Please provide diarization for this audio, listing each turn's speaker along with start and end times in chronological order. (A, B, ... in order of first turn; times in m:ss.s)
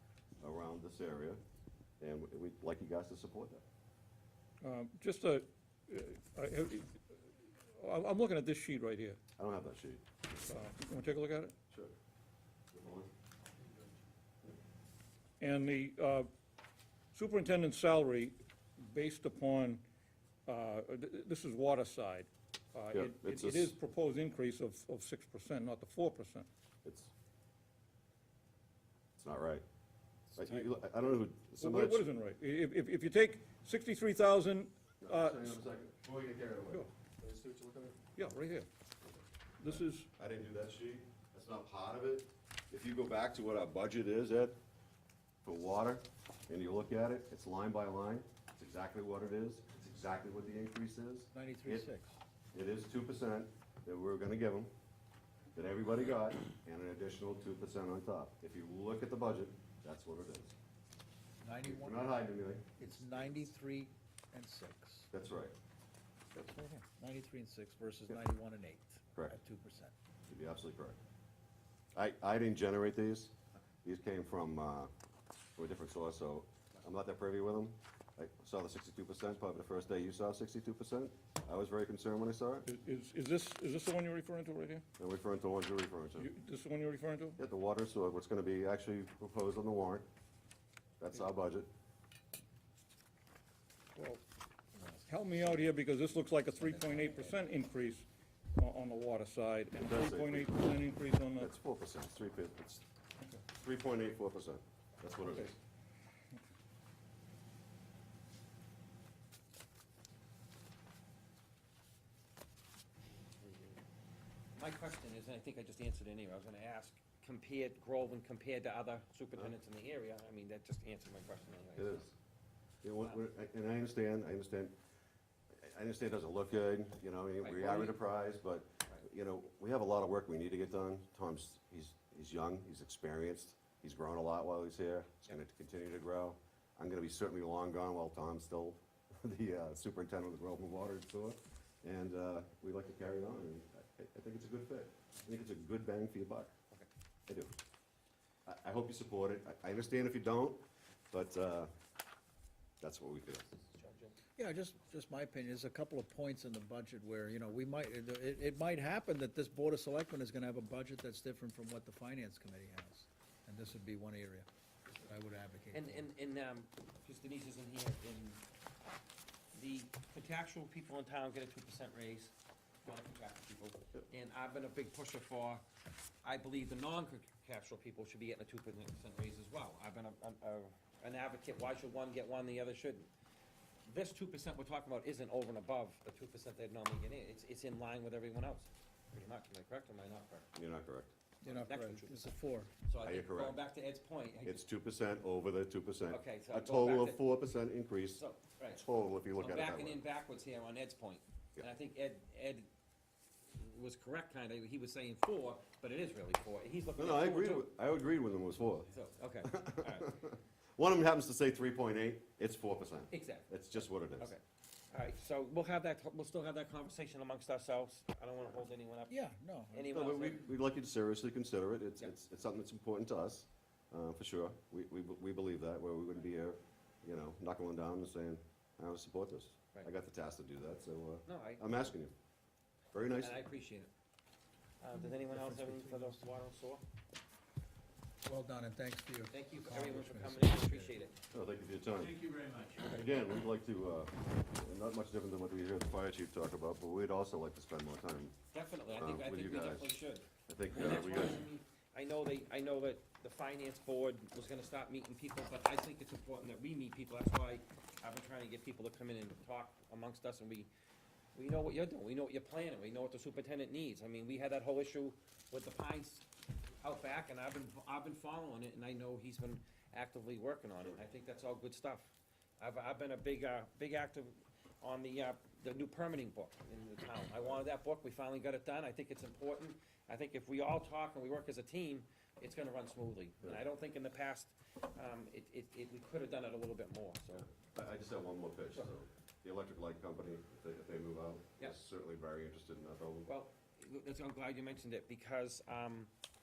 0:00.4-0:01.4 A
0:02.0-0:03.6 A
0:04.6-0:07.1 B
0:07.8-0:09.2 B
0:09.4-0:10.0 A
0:10.4-0:11.5 B
0:12.7-0:13.1 A
0:15.4-0:16.3 B
0:17.1-0:19.8 B
0:20.4-0:26.5 B
0:22.9-0:23.7 A
0:26.8-0:27.1 A
0:29.2-0:29.6 A
0:30.3-0:32.0 A
0:31.6-0:35.6 B
0:35.0-0:38.0 A
0:38.2-0:38.7 B
0:39.0-0:44.6 A
0:39.6-0:40.1 B
0:45.4-0:51.9 A
0:51.3-0:52.2 C
0:52.5-0:54.7 A
0:55.5-1:00.5 A
1:01.4-1:02.2 C
1:01.6-1:03.5 A
1:02.8-1:05.1 C
1:05.1-1:05.5 A
1:06.3-1:09.9 C
1:10.3-1:11.0 A
1:11.9-1:14.9 A
1:15.6-1:22.7 A
1:22.6-1:24.8 B
1:25.0-1:26.3 A
1:26.2-1:27.4 B
1:27.4-1:30.1 A
1:31.0-1:31.7 A
1:34.0-1:34.2 B
1:34.7-1:35.8 C
1:35.1-1:41.5 B
1:36.4-1:37.4 C
1:39.8-1:40.7 A
1:41.4-1:42.8 A
1:43.5-1:45.6 A
1:45.2-1:45.5 B
1:53.4-1:53.7 D
1:54.5-2:02.1 D
2:01.8-2:02.1 A
2:02.8-2:04.7 A
2:05.6-2:26.5 A
2:07.4-2:08.0 D
2:27.3-2:27.5 A
2:28.4-2:31.7 A
2:32.8-2:33.5 A
2:33.7-2:34.1 D
2:34.4-2:44.5 C
2:45.0-2:46.1 C
2:45.7-2:48.4 D
2:49.5-2:52.3 D
2:52.8-2:55.6 D
2:56.2-3:03.1 D
3:03.8-3:10.5 D
3:10.5-3:11.7 A
3:11.4-3:12.7 C
3:11.6-3:12.3 D
3:12.8-3:14.6 D
3:13.0-3:13.6 A
3:14.4-3:18.2 A
3:16.1-3:17.2 D
3:18.1-3:18.8 D
3:18.7-3:20.0 A
3:19.4-3:22.7 D
3:23.5-3:27.7 D
3:27.0-3:28.9 A
3:28.9-3:30.1 D
3:29.4-3:34.3 A
3:33.1-3:33.6 D
3:34.2-3:39.2 D
3:39.1-3:39.9 C
3:39.7-3:40.5 D
3:39.9-3:52.1 A
3:51.2-3:51.6 D
3:52.9-3:53.4 A
3:53.2-3:53.9 D
3:54.8-3:56.8 D
3:54.9-3:56.2 C
3:58.2-4:00.9 C
3:59.3-4:01.2 D
4:01.3-4:02.2 A
4:02.0-4:03.0 C
4:02.8-4:08.4 A
4:08.5-4:20.7 D
4:08.9-4:11.5 A
4:21.3-4:26.2 D
4:26.8-4:47.5 D
4:47.6-4:53.3 A
4:53.2-4:56.1 D